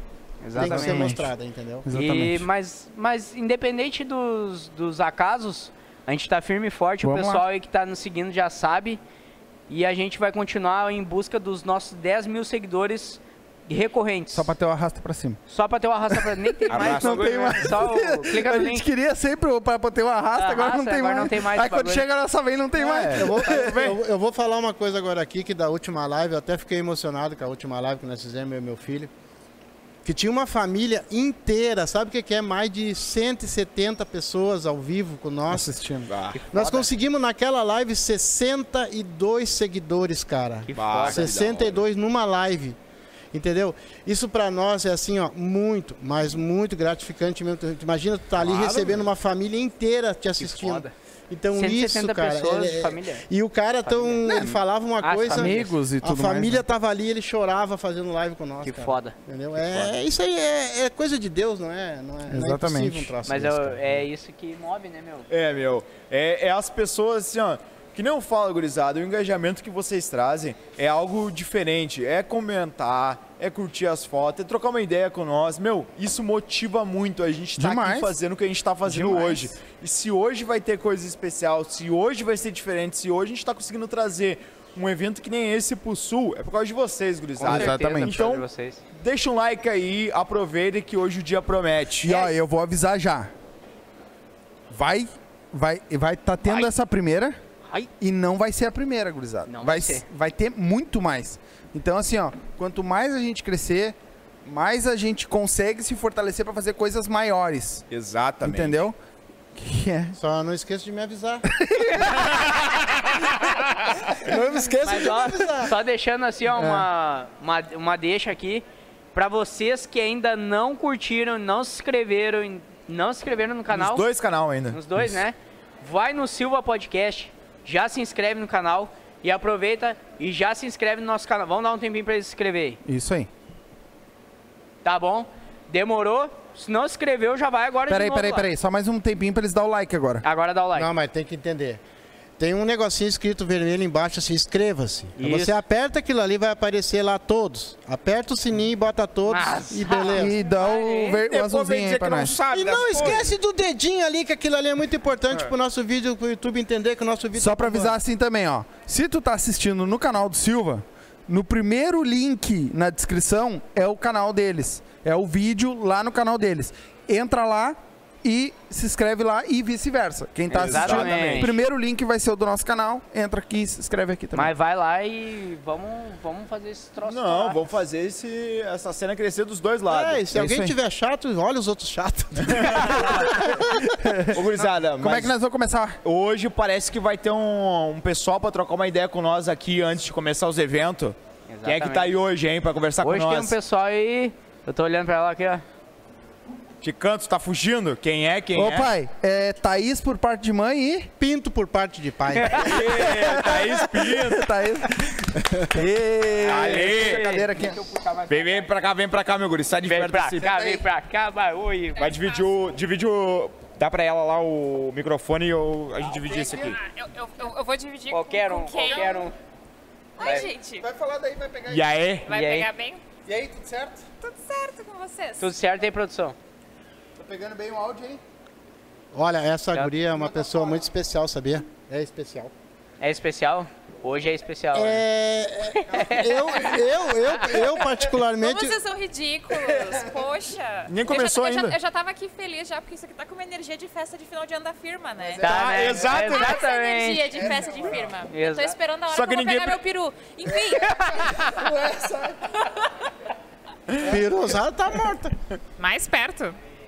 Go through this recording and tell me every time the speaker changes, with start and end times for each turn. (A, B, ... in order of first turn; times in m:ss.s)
0:00.4-0:01.2 A
0:00.5-0:01.3 B
0:00.5-0:01.8 C
0:01.8-0:02.5 B
0:01.9-0:09.0 A
0:07.0-0:07.4 B
0:09.7-0:14.5 A
0:14.3-0:15.4 B
0:15.5-0:18.9 A
0:16.1-0:23.9 B
0:16.7-0:17.5 D
0:20.3-0:22.0 A
0:22.8-0:23.9 D
0:23.1-0:29.1 C
0:30.0-0:35.8 C
0:35.5-0:36.1 B
0:36.1-0:36.4 D
0:36.3-0:36.9 A
0:36.5-0:42.8 C
0:40.7-0:41.3 A
0:40.7-0:41.8 D
0:43.3-1:04.0 C
0:48.4-0:49.0 D
0:50.4-0:50.9 A
0:51.5-0:53.2 A
0:53.8-0:54.5 A
0:55.0-0:55.7 A
0:55.3-0:56.7 B
0:58.6-0:59.1 A
1:02.3-1:03.1 B
1:03.2-1:05.3 A
1:05.3-1:28.4 D
1:17.6-1:18.1 B
1:18.8-1:19.6 B
1:27.4-1:28.8 A
1:27.4-1:28.2 B
1:29.0-1:32.2 D
1:32.0-1:33.3 B
1:34.7-1:37.4 B
1:38.0-1:47.8 B
1:39.5-1:40.0 A
1:47.9-1:48.8 D
1:48.4-1:49.0 B
1:49.5-1:50.2 B
1:50.2-1:51.4 C
1:51.6-1:52.4 B
1:52.2-1:52.9 D
1:54.2-1:54.7 B
1:54.3-1:55.7 C
1:54.8-2:04.0 A
1:56.5-1:56.9 B
2:03.7-2:04.8 D
2:04.7-2:12.8 A
2:12.8-2:13.3 B
2:14.8-2:18.5 A
2:17.9-2:20.2 B
2:20.2-2:20.9 A
2:20.8-2:21.8 C
2:22.4-2:30.4 C
2:25.2-2:25.6 A
2:29.3-2:30.6 A
2:30.1-2:32.4 B
2:31.0-2:33.3 D
2:32.5-2:38.0 C
2:37.3-2:54.5 B
2:50.5-2:51.6 A
2:50.5-2:51.5 D
2:54.3-2:57.6 A
2:57.0-3:00.2 D
2:59.9-3:03.5 C
3:00.3-3:00.8 B
3:02.4-3:03.3 D
3:02.9-3:04.4 B
3:04.3-3:05.3 D
3:05.0-3:06.0 B
3:06.0-3:13.6 D
3:11.5-3:12.1 A
3:13.0-3:15.6 A
3:16.8-3:18.9 D
3:18.5-3:21.1 B
3:21.2-3:23.0 C
3:22.6-3:24.5 D
3:22.9-3:27.8 B
3:26.4-3:28.7 A
3:26.4-3:27.4 D
3:28.3-3:30.7 D
3:29.8-3:32.0 A
3:30.4-3:30.8 B
3:32.0-3:32.4 E
3:32.0-3:36.8 D
3:36.2-3:36.7 B
3:36.6-3:39.3 E
3:38.1-3:39.3 A
3:40.2-3:40.8 E
3:40.2-3:40.5 A
3:40.8-3:42.0 B
3:41.7-3:42.3 D
3:42.3-3:42.7 A
3:42.3-3:43.0 E
3:43.2-3:44.0 B
3:44.2-3:45.5 E
3:45.4-3:46.4 A
3:47.2-3:48.2 B
3:49.1-3:52.5 C
3:53.0-3:55.0 A
3:54.7-3:58.8 C
3:55.9-3:56.3 A
3:58.4-4:05.4 E
4:00.9-4:01.8 D
4:05.4-4:06.6 D
4:05.4-4:07.4 A
4:06.1-4:11.6 E
4:07.4-4:07.9 B
4:08.3-4:08.8 A
4:09.1-4:09.8 D
4:11.5-4:12.4 B
4:14.0-4:15.3 C
4:15.8-4:16.6 E